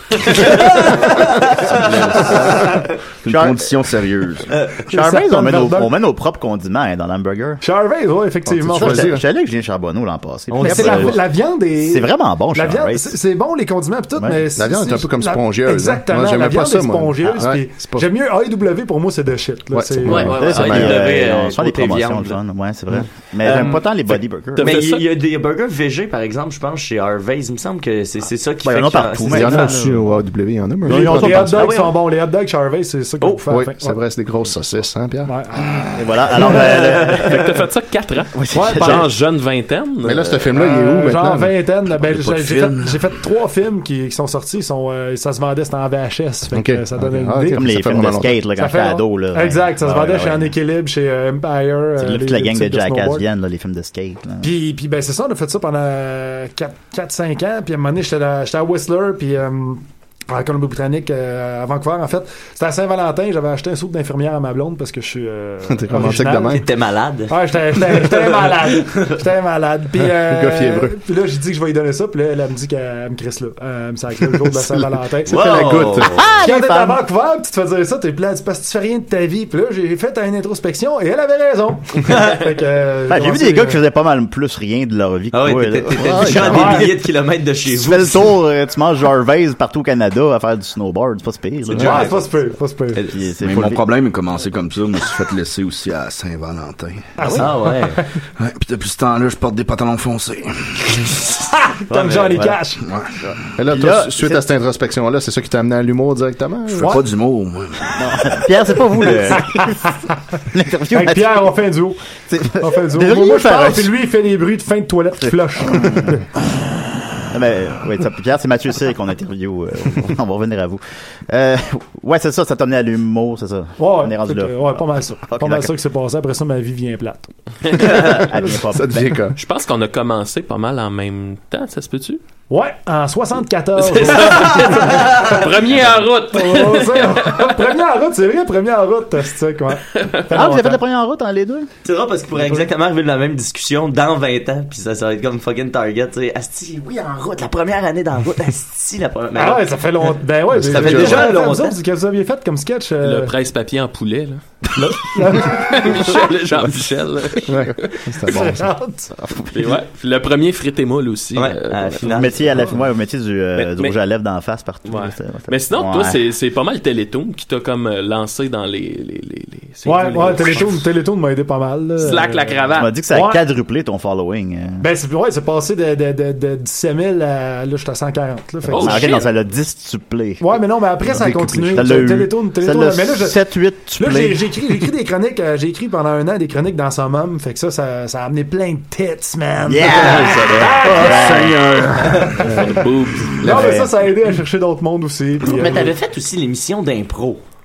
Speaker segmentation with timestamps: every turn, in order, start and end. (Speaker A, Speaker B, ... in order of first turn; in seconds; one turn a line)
Speaker A: 0.2-1.9
Speaker B: 0.3-1.1
Speaker C: 1.6-2.6
Speaker D: 1.6-4.7
Speaker E: 3.3-3.7
Speaker A: 4.5-4.8
Speaker E: 4.9-7.6
Speaker B: 4.9-6.0
Speaker B: 7.6-9.2
Speaker C: 8.5-9.2
Speaker E: 8.7-11.3
Speaker A: 10.5-11.2
Speaker B: 10.6-20.4
Speaker E: 11.8-13.2
Speaker C: 14.6-18.1
Speaker C: 19.7-21.0
Speaker F: 20.1-20.9
Speaker A: 20.1-22.4
Speaker E: 20.2-24.8
Speaker A: 23.4-23.8
Speaker F: 23.7-25.1
Speaker A: 24.6-30.0
Speaker E: 28.6-30.0
Speaker C: 29.3-31.7
Speaker B: 30.8-34.0
Speaker A: 30.9-32.0
Speaker C: 33.5-35.3
Speaker B: 35.3-35.9
Speaker E: 35.9-37.4
Speaker B: 36.4-36.8
Speaker A: 36.5-37.3
Speaker F: 37.0-40.5
Speaker E: 38.3-39.1
Speaker B: 38.5-39.1
Speaker C: 40.0-41.5
Speaker B: 40.5-47.6
Speaker D: 42.0-43.0
Speaker C: 46.5-48.4
Speaker E: 47.5-50.5
Speaker B: 48.5-53.2
Speaker E: 52.0-54.5
Speaker B: 54.4-66.6
Speaker C: 65.7-66.7
Speaker A: 66.4-69.2
Speaker B: 67.3-75.7
Speaker C: 70.2-71.0
Speaker C: 74.5-76.3
Speaker A: 75.3-76.3
Speaker E: 76.0-77.0
Speaker B: 76.4-83.8
Speaker A: 82.1-82.3
Speaker E: 83.1-86.9
Speaker A: 85.3-88.3
Speaker C: 86.0-86.7
Speaker B: 86.4-86.9
Speaker E: 87.7-92.3
Speaker A: 91.7-92.2
Speaker B: 91.7-93.1
Speaker E: 93.1-93.8
Speaker D: 93.4-97.2
Speaker B: 97.2-98.1
Speaker A: 97.3-98.0
Speaker D: 98.4-101.3
Speaker B: 101.6-102.9
Speaker A: 101.9-102.5
Speaker D: 102.8-103.3
Speaker C: 103.5-107.0
Speaker E: 103.7-104.4
Speaker D: 106.8-108.4
Speaker E: 108.0-109.9
Speaker B: 109.3-110.1
Speaker E: 110.5-111.5
Speaker B: 110.9-116.3
Speaker E: 112.3-113.9
Speaker E: 115.2-116.2
Speaker E: 117.3-125.7
Speaker B: 123.8-127.3
Speaker C: 127.7-129.4
Speaker E: 127.8-129.2
Speaker F: 129.4-132.2
Speaker B: 132.5-140.8
Speaker F: 133.8-137.6
Speaker F: 139.9-140.3
Speaker E: 140.3-141.7
Speaker A: 141.8-149.7
Speaker B: 142.3-142.7
Speaker B: 149.3-153.3
Speaker C: 150.5-151.3
Speaker A: 150.6-151.8
Speaker F: 153.0-154.4
Speaker B: 154.8-156.3
Speaker F: 155.1-158.2
Speaker C: 157.5-158.7
Speaker B: 158.2-159.1
Speaker F: 159.5-162.2
Speaker A: 161.3-162.7
Speaker E: 162.0-166.2
Speaker F: 163.6-163.9
Speaker F: 164.8-170.9
Speaker B: 169.8-173.4
Speaker F: 172.0-172.9
Speaker E: 172.8-174.9
Speaker B: 174.8-179.3
Speaker F: 178.7-179.3
Speaker E: 178.7-184.9
Speaker B: 180.4-183.4
Speaker B: 184.0-191.5
Speaker E: 189.7-191.6
Speaker F: 189.9-193.5
Speaker C: 190.0-192.8
Speaker B: 192.2-192.8
Speaker B: 193.4-195.9
Speaker E: 193.4-193.9
Speaker A: 195.4-197.4